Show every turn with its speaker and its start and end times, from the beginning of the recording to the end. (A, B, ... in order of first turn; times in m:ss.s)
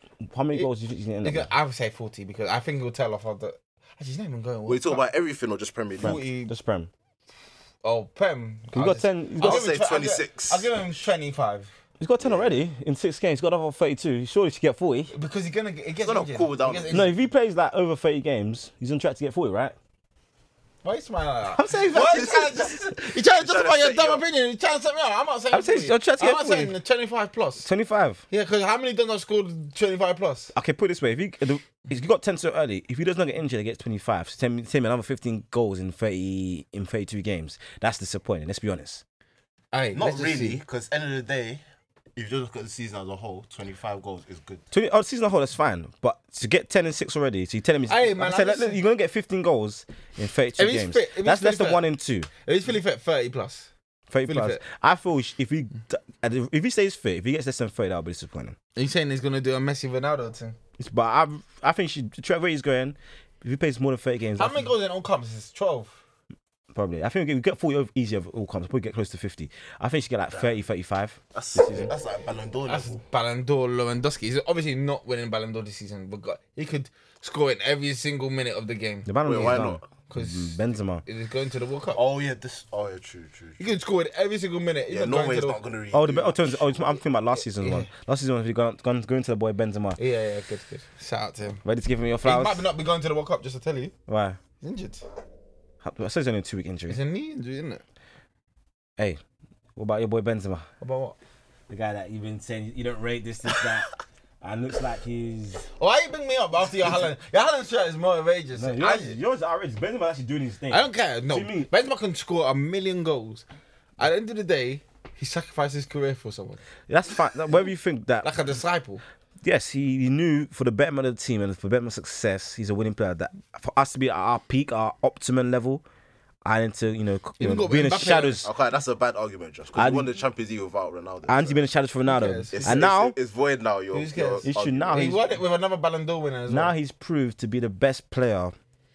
0:00.2-0:01.5 A
0:01.2-0:05.0 B
0:04.7-0:06.2 C
0:06.0-0:06.5 B
0:06.0-0:06.9 A
0:07.8-0:11.7 B
0:08.7-0:09.7 A
0:09.4-0:10.7 C
0:12.0-0:15.1 A
0:12.2-0:12.5 C
0:15.1-0:17.2 B
0:16.0-0:17.0 C
0:16.9-0:19.7 A
0:20.8-0:27.7 B
0:21.5-0:22.7 A
0:22.8-0:24.2 C
0:25.5-0:26.8 A
0:27.6-0:28.2 A
0:28.3-0:30.5 B
0:30.5-0:39.0 A
0:39.7-0:40.6 B
0:39.9-0:41.6 C
0:42.2-0:44.6 C
0:44.7-0:52.3 A
0:47.9-0:48.8 B
0:50.6-0:51.9 B
0:52.4-0:53.7 B
0:54.1-0:58.6 A
0:54.2-0:54.6 B
0:58.8-1:00.6 B
1:00.8-1:04.7 A
1:04.4-1:06.0 B
1:06.7-1:11.9 A
1:11.3-1:13.0 C
1:12.6-1:19.6 B
1:19.0-1:21.0 A
1:19.2-1:19.8 C
1:20.1-1:22.0 B
1:21.9-1:23.6 C
1:23.6-1:25.6 B
1:24.9-1:26.7 C
1:25.9-1:30.0 A
1:27.4-1:27.9 B
1:30.0-1:31.6 B
1:31.6-1:32.7 A
1:32.2-1:33.9 B
1:34.1-1:34.4 A
1:34.6-1:35.0 B
1:35.8-1:37.0 A
1:36.9-1:37.8 B
1:39.8-1:40.6 A
1:40.8-1:41.2 B
1:41.7-1:43.9 A
1:44.4-1:45.7 A
1:45.8-1:49.2 B
1:48.6-1:51.7 A
1:50.7-1:53.4 B
1:54.0-1:56.6 B
1:56.9-1:58.3 A
1:58.2-1:59.0 B
1:59.4-2:05.8 A
2:06.4-2:08.5 A
2:07.4-2:08.4 B
2:08.4-2:11.6 C
2:09.7-2:10.1 A
2:11.2-2:13.1 A
2:12.1-2:12.8 B
2:12.5-2:15.2 C
2:13.9-2:16.7 B
2:14.4-2:15.2 A
2:16.5-2:18.5 A